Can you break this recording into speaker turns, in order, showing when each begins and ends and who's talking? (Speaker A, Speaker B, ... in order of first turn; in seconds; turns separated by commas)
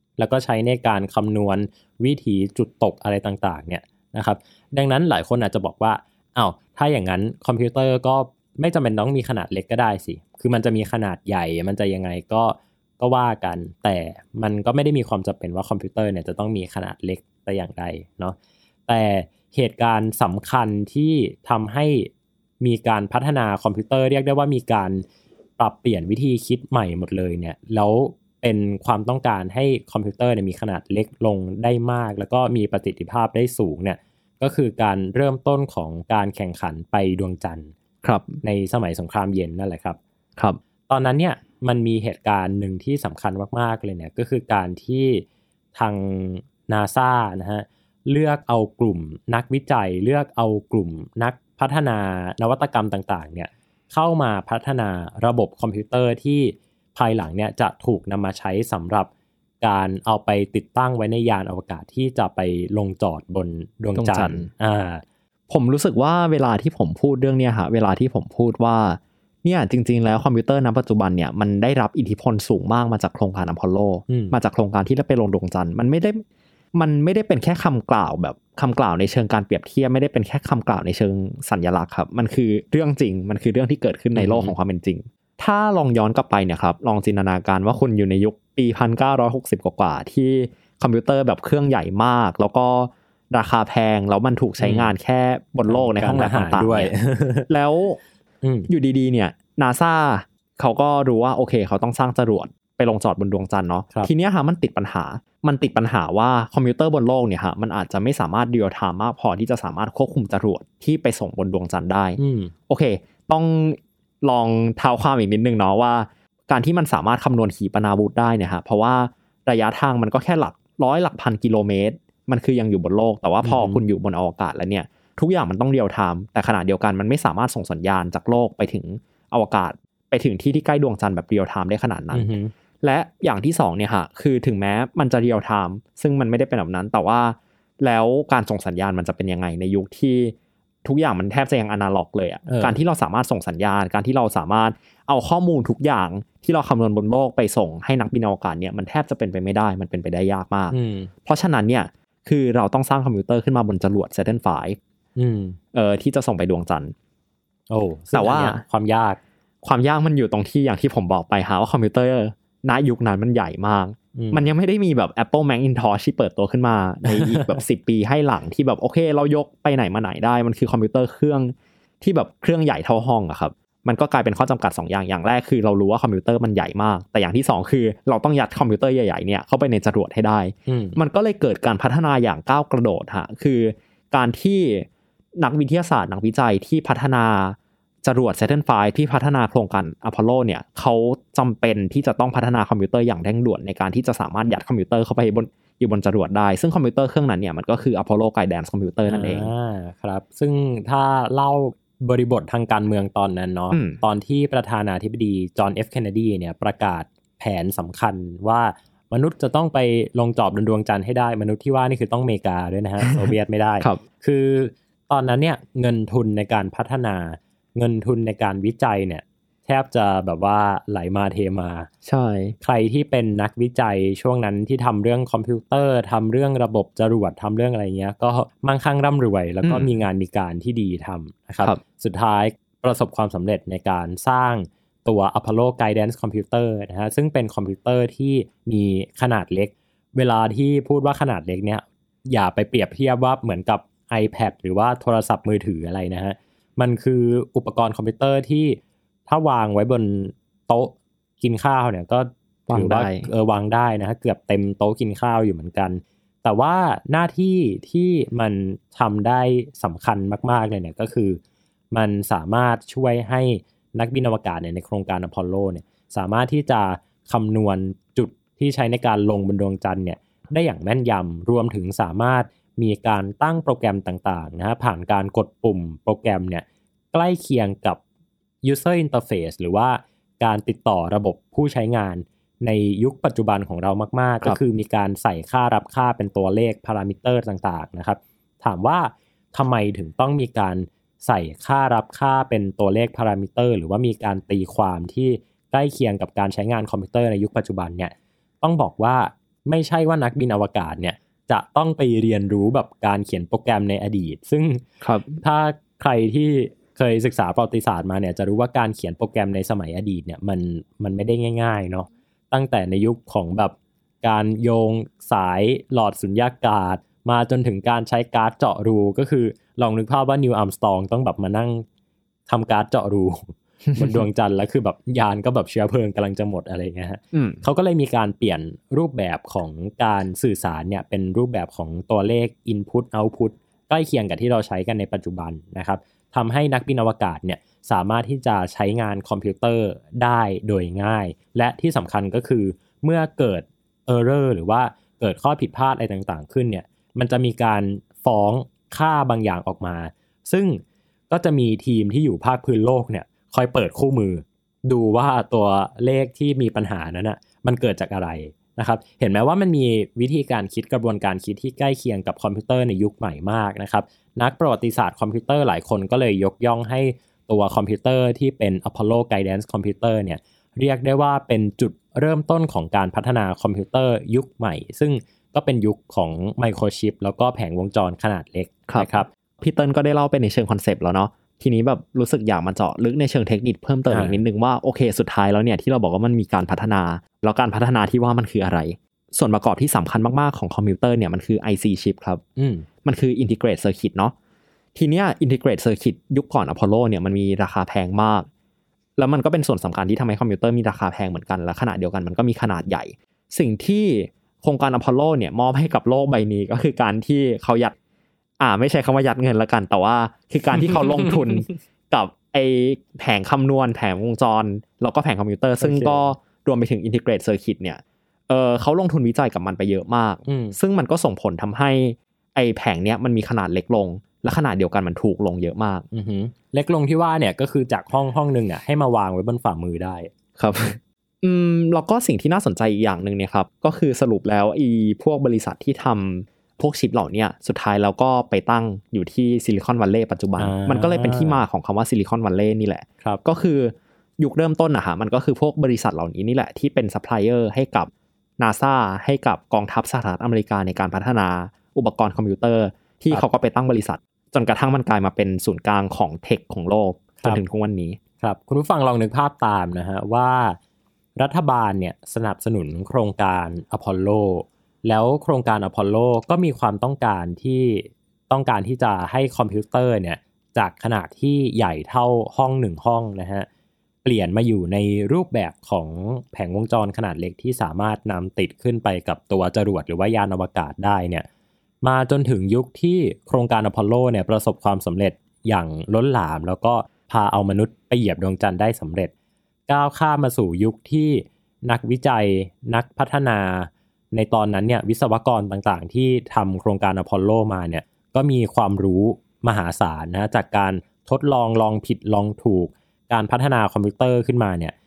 Speaker A: 0.2-18.4, Speaker A: 18.9-25.0, Speaker A: 25.6-37.7, Speaker B: 38.0-38.4, Speaker A: 38.4-40.0, Speaker A: 40.9-59.1, Speaker A: 59.6-65.0, Speaker B: 64.0-64.5, Speaker B: 65.5-76.2, Speaker A: 74.1-74.3, Speaker B: 76.7-96.9, Speaker A: 84.1-84.5, Speaker A: 94.6-94.9, Speaker A: 95.7-97.5, Speaker B: 97.5-98.0, Speaker A: 98.4-98.7, Speaker B: 98.7-132.3, Speaker A: 112.2-112.5, Speaker A: 123.4-123.8, Speaker A: 132.1-132.5, Speaker B: 132.8-154.8, Speaker A: 142.4-142.8, Speaker A: 150.7-151.1, Speaker A: 155.2-155.6, Speaker B: 155.7-156.9, Speaker A: 157.7-159.2, Speaker B: 158.1-158.6, Speaker B: 159.6-199.5, Speaker A: 164.1-164.5, Speaker A: 167.1-167.6, Speaker A: 180.7-181.0, Speaker A: 199.1-221.9, Speaker B: 203.7-204.0, Speaker B: 222.0-222.6, Speaker A: 222.6-261.4, Speaker B: 229.6-229.9, Speaker B: 252.7-253.3, Speaker A: 261.9-278.0, Speaker A: 278.6-304.9, Speaker B: 305.0-305.4, Speaker A: 305.4-321.8, Speaker A: 322.5-379.3, Speaker B: 323.9-324.2, Speaker B: 327.3-327.6, Speaker B: 379.6-392.4, Speaker A: 384.1-384.4, Speaker A: 392.6-392.9, Speaker B: 393.0-394.3, Speaker B: 394.9-398.5, Speaker B: 399.2-407.9, Speaker B: 408.6-426.1, Speaker A: 415.8-416.3, Speaker A: 420.4-420.8, Speaker A: 426.1-430.3, Speaker B: 430.6-458.2, Speaker A: 440.6-441.6, Speaker A: 458.4-460.8, Speaker A: 461.4-473.7, Speaker A: 474.2-481.4, Speaker A: 482.0-489.3, Speaker A: 489.9-504.9